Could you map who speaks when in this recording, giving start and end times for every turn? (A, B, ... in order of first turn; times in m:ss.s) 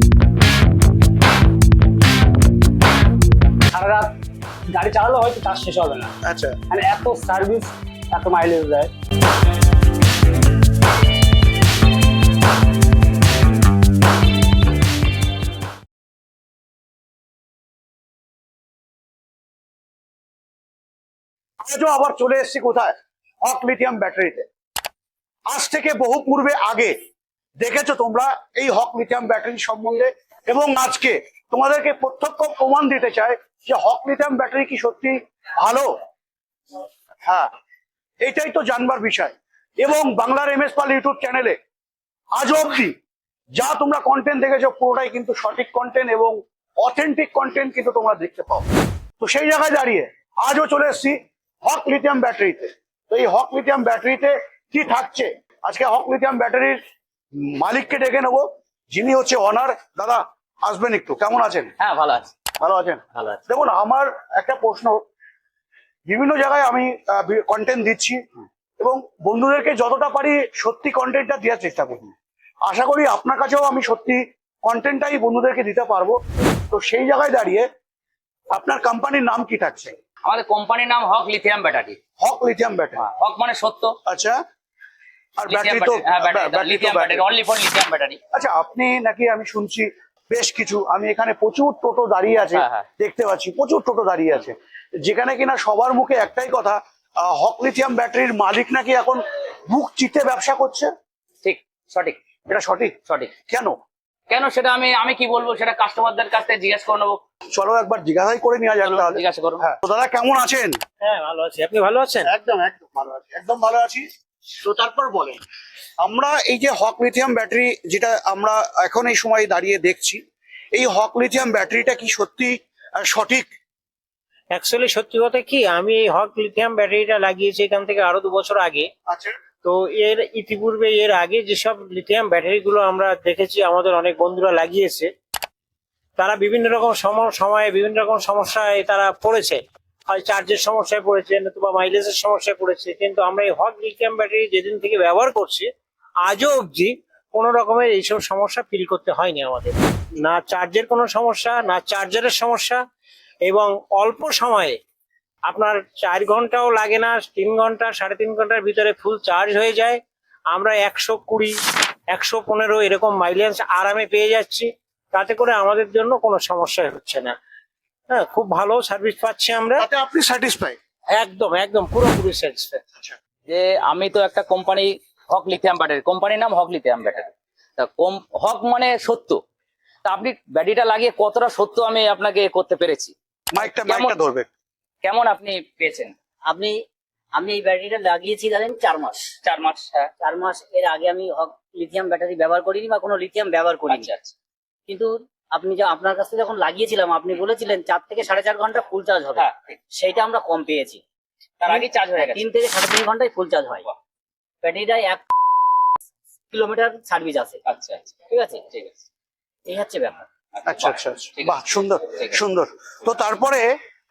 0:03.7-0:04.1 A
0:04.7-0:06.1 A
0:06.2-0:06.6 B
0:06.7-0:08.9 A
0:21.6-0:24.5 B
0:25.5-0:26.9 B
0:27.6-0:35.9 B
0:38.2-0:41.6 B
0:42.3-0:42.9 B
0:43.5-0:48.6 B
0:49.2-0:56.8 B
0:57.4-1:01.7 B
1:01.8-1:02.3 C
1:02.6-1:05.0 B
1:06.1-1:08.2 B
1:08.8-1:17.7 B
1:18.5-1:19.9 B
1:20.2-1:22.0 C
1:22.2-1:23.0 B
1:23.0-1:24.0 C
1:24.1-1:24.4 B
1:25.4-1:27.3 B
1:25.5-1:28.2 C
1:28.3-1:40.9 B
1:32.6-1:32.9 C
1:41.4-1:42.2 C
1:42.5-1:43.0 B
1:43.1-1:43.3 C
1:43.5-1:43.7 B
1:44.3-1:47.2 C
1:47.5-1:50.8 B
1:48.8-1:49.6 C
1:51.0-1:52.3 D
1:52.2-1:54.0 B
1:54.6-1:55.4 B
1:56.0-2:00.2 B
2:00.7-2:03.5 B
2:04.5-2:08.9 D
2:09.1-2:09.3 B
2:09.6-2:15.1 D
2:16.2-2:25.7 D
2:26.2-2:32.8 D
2:33.4-2:34.8 D
2:35.4-2:40.0 D
2:40.5-2:41.6 D
2:42.1-2:47.4 D
2:48.1-2:49.9 D
2:49.8-2:50.8 B
2:51.1-2:52.8 D
2:53.4-2:59.4 C
3:00.0-3:04.2 C
3:03.5-3:04.5 B
3:05.0-3:06.1 C
3:06.5-3:06.8 E
3:07.4-3:09.3 E
3:09.4-3:10.1 C
3:10.2-3:14.1 E
3:13.9-3:14.3 C
3:14.9-3:21.0 E
3:21.6-3:22.4 C
3:21.7-3:23.9 E
3:24.6-3:25.2 E
3:26.5-3:27.6 E
3:27.7-3:28.2 C
3:28.3-3:28.6 E
3:29.6-3:30.2 E
3:30.6-3:31.6 C
3:30.6-3:33.7 B